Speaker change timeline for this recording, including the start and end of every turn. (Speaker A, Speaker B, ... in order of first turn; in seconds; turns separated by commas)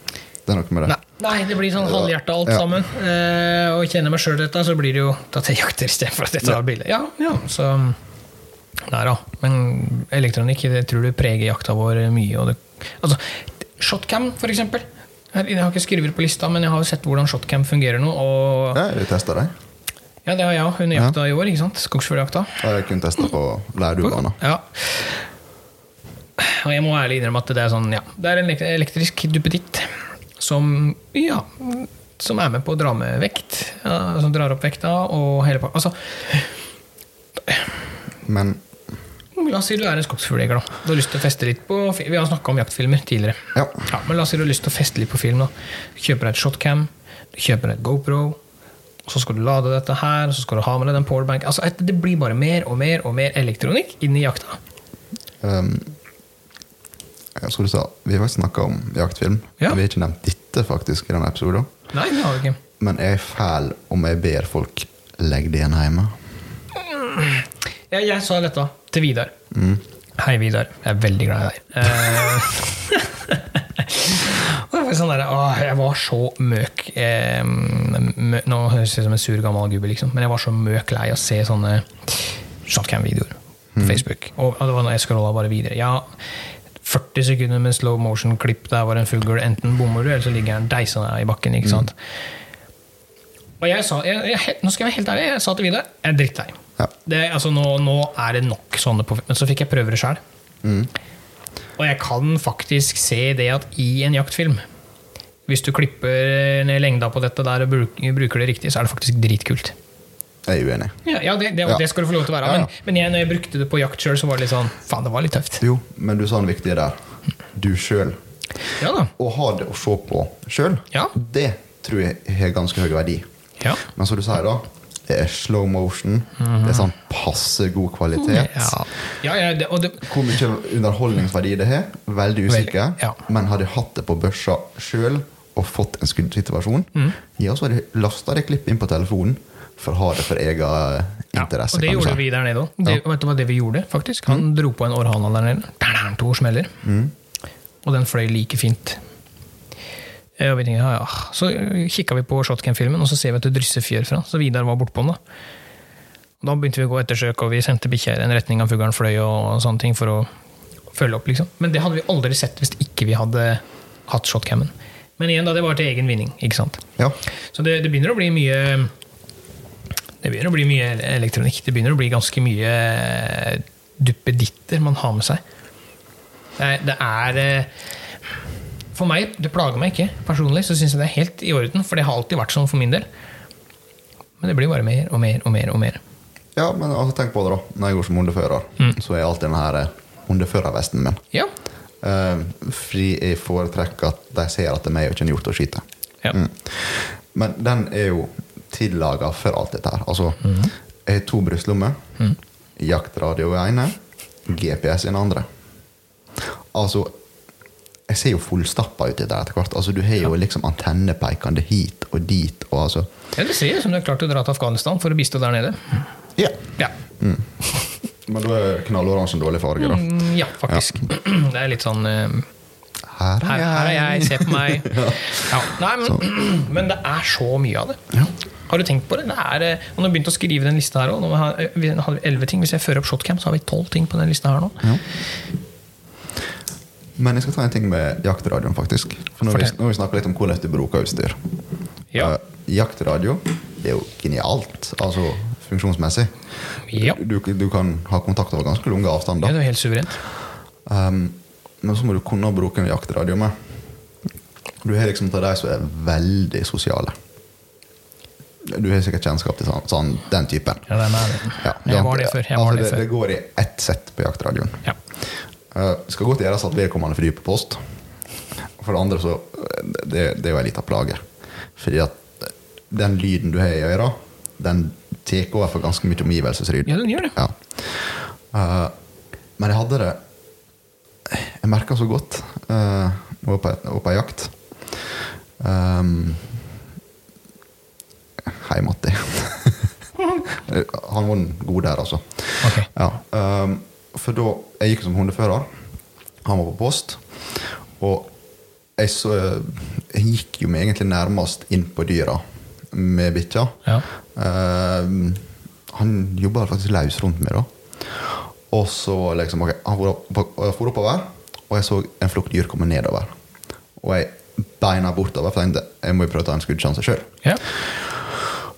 Speaker A: 0.5-1.0, Speaker B: 0.9-8.0, Speaker A: 1.8-2.6, Speaker B: 8.8-18.8, Speaker A: 18.7-19.5, Speaker B: 20.2-22.6, Speaker A: 22.6-24.4, Speaker B: 24.1-25.3, Speaker B: 26.4-36.5, Speaker A: 38.2-38.6, Speaker B: 39.4-48.4, Speaker A: 43.5-43.9, Speaker B: 49.1-54.6, Speaker A: 55.4-56.0, Speaker A: 57.4-61.7, Speaker B: 61.9-62.6, Speaker A: 62.8-66.2, Speaker B: 66.8-69.3, Speaker A: 69.5-69.8, Speaker B: 70.2-86.1, Speaker A: 83.7-84.0, Speaker B: 86.8-92.0, Speaker B: 93.6-100.2, Speaker A: 100.6-100.9, Speaker B: 101.8-104.6, Speaker B: 105.5-109.8, Speaker A: 110.5-111.0, Speaker B: 111.0-115.6, Speaker A: 112.4-112.7, Speaker A: 115.6-118.2, Speaker B: 118.8-119.1, Speaker A: 119.2-123.2, Speaker A: 123.8-128.9, Speaker B: 126.4-126.9, Speaker B: 128.2-130.1, Speaker A: 130.0-142.2, Speaker B: 132.5-133.2, Speaker B: 141.3-146.8, Speaker A: 146.8-147.1, Speaker B: 147.8-149.0, Speaker B: 150.4-155.2, Speaker B: 156.4-160.3, Speaker B: 160.9-166.8, Speaker B: 167.5-168.9, Speaker B: 170.2-175.4, Speaker B: 176.6-177.7, Speaker B: 178.9-183.1, Speaker B: 184.4-186.0, Speaker A: 186.6-191.2, Speaker A: 192.0-200.5, Speaker B: 200.4-200.7, Speaker A: 201.1-202.0, Speaker A: 202.8-205.5, Speaker A: 206.7-207.1, Speaker A: 208.1-213.1, Speaker B: 213.4-216.1, Speaker A: 216.4-217.5, Speaker A: 218.2-220.1, Speaker B: 219.8-222.5, Speaker A: 223.1-226.2, Speaker B: 223.5-228.0, Speaker B: 228.7-234.8, Speaker A: 237.2-241.4, Speaker A: 242.2-246.4, Speaker B: 246.9-247.2, Speaker A: 246.9-249.6, Speaker B: 249.4-250.2, Speaker A: 250.9-253.7, Speaker A: 254.8-257.1, Speaker A: 258.6-260.9, Speaker B: 260.9-263.0, Speaker A: 261.6-267.9, Speaker A: 268.8-271.2, Speaker A: 271.8-278.9, Speaker B: 276.9-277.4, Speaker A: 279.6-280.2, Speaker A: 281.3-286.6, Speaker A: 288.4-289.9, Speaker A: 290.5-295.7, Speaker B: 292.6-292.9, Speaker A: 296.4-298.3, Speaker A: 299.0-303.8, Speaker A: 304.3-313.3, Speaker A: 314.0-318.6